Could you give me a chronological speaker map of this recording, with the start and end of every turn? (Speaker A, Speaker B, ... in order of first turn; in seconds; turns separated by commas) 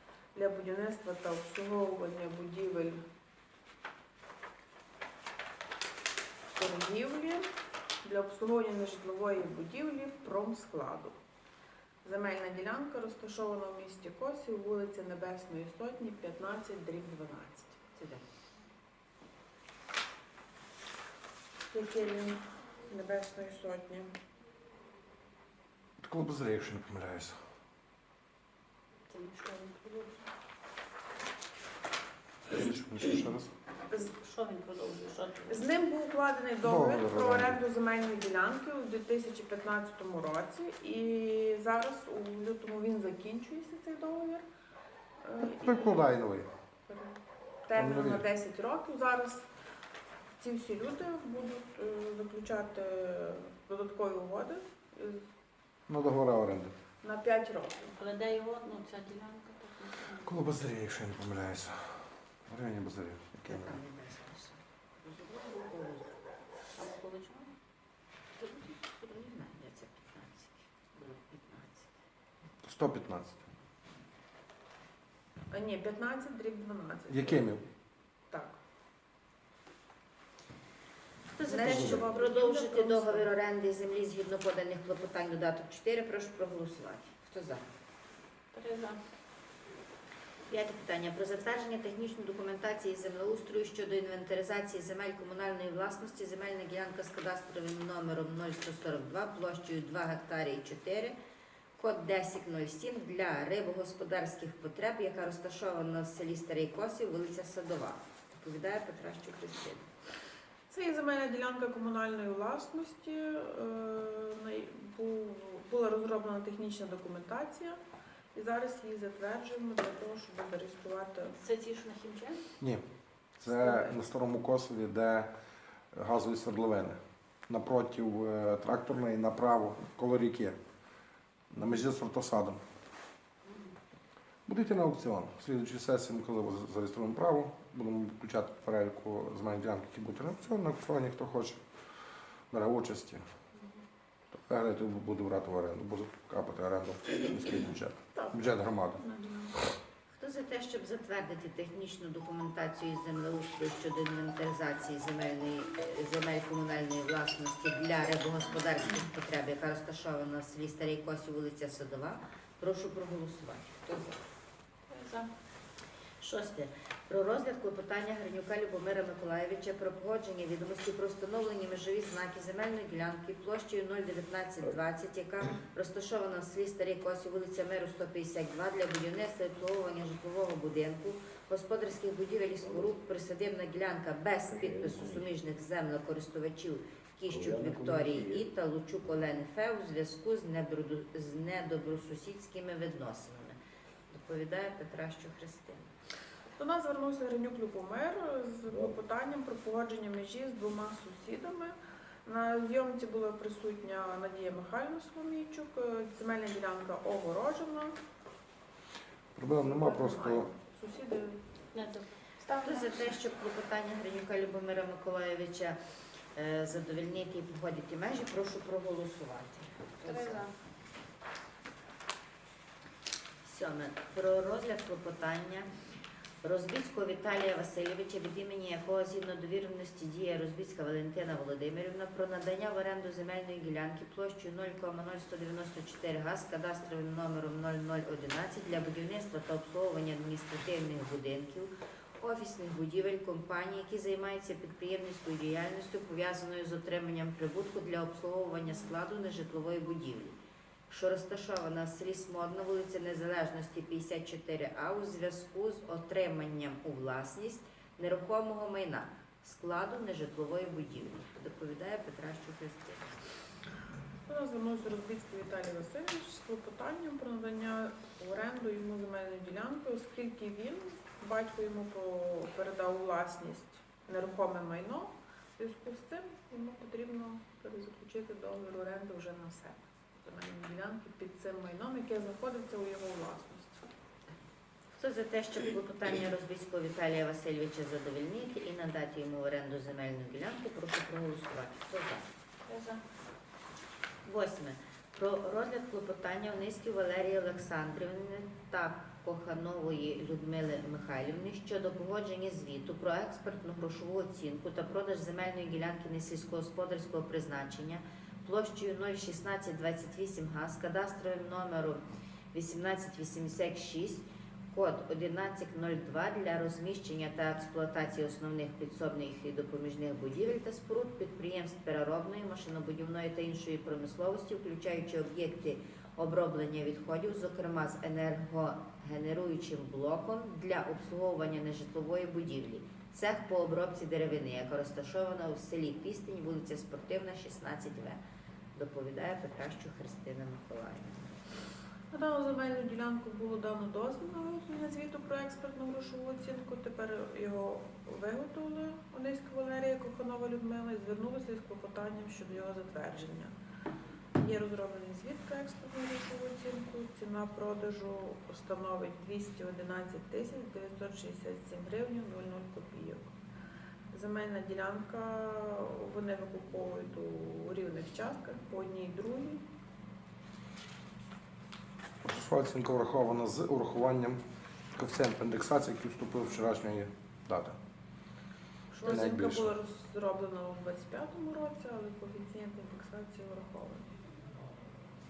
Speaker A: 0.3-3.0, Speaker A: 6.5-7.5, Speaker A: 8.0-11.1, Speaker A: 12.0-17.8, Speaker B: 17.9-18.2, Speaker A: 21.7-24.1, Speaker C: 26.0-27.4, Speaker D: 29.1-30.3, Speaker C: 32.5-33.5, Speaker D: 33.9-35.7, Speaker A: 35.5-44.4, Speaker C: 36.6-37.6, Speaker A: 45.2-46.0, Speaker C: 45.6-46.5, Speaker A: 46.9-47.1, Speaker A: 47.6-49.5, Speaker C: 47.7-48.2, Speaker A: 50.4-55.2, Speaker C: 55.9-56.7, Speaker A: 57.0-57.9, Speaker D: 57.9-60.4, Speaker C: 60.2-63.8, Speaker B: 63.5-66.2, Speaker D: 66.8-67.5, Speaker B: 68.4-71.9, Speaker C: 72.6-73.4, Speaker A: 75.5-77.5, Speaker C: 77.1-77.6, Speaker A: 78.3-78.5, Speaker B: 81.3-87.6, Speaker A: 81.5-83.3, Speaker C: 81.5-82.1, Speaker D: 88.5-89.0, Speaker B: 90.5-101.2, Speaker B: 101.8-109.9, Speaker A: 110.7-117.8, Speaker A: 118.3-121.4, Speaker D: 121.4-122.5, Speaker C: 122.6-122.8, Speaker C: 123.4-125.3, Speaker A: 123.5-124.0, Speaker C: 125.9-130.6, Speaker C: 131.5-132.6, Speaker C: 134.4-141.6, Speaker C: 142.5-143.2, Speaker C: 144.4-149.0, Speaker A: 148.2-148.4, Speaker A: 148.9-149.6, Speaker B: 150.1-164.2, Speaker D: 164.9-165.3, Speaker B: 166.2-193.6, Speaker B: 194.1-195.9, Speaker A: 196.6-207.9, Speaker C: 209.3-210.5, Speaker A: 209.6-211.4, Speaker D: 211.7-213.1, Speaker B: 212.6-215.8, Speaker B: 216.3-220.4, Speaker D: 220.0-220.5, Speaker B: 223.4-225.7, Speaker B: 226.4-250.4, Speaker B: 250.9-263.2, Speaker A: 264.3-283.8, Speaker B: 284.9-292.3, Speaker D: 292.7-293.0, Speaker B: 294.2-312.0, Speaker B: 312.5-338.2, Speaker B: 338.7-341.3, Speaker A: 342.1-353.5, Speaker A: 354.3-363.3, Speaker A: 364.1-369.6, Speaker C: 372.2-374.4, Speaker C: 374.9-377.8, Speaker A: 378.9-384.1, Speaker C: 379.0-379.7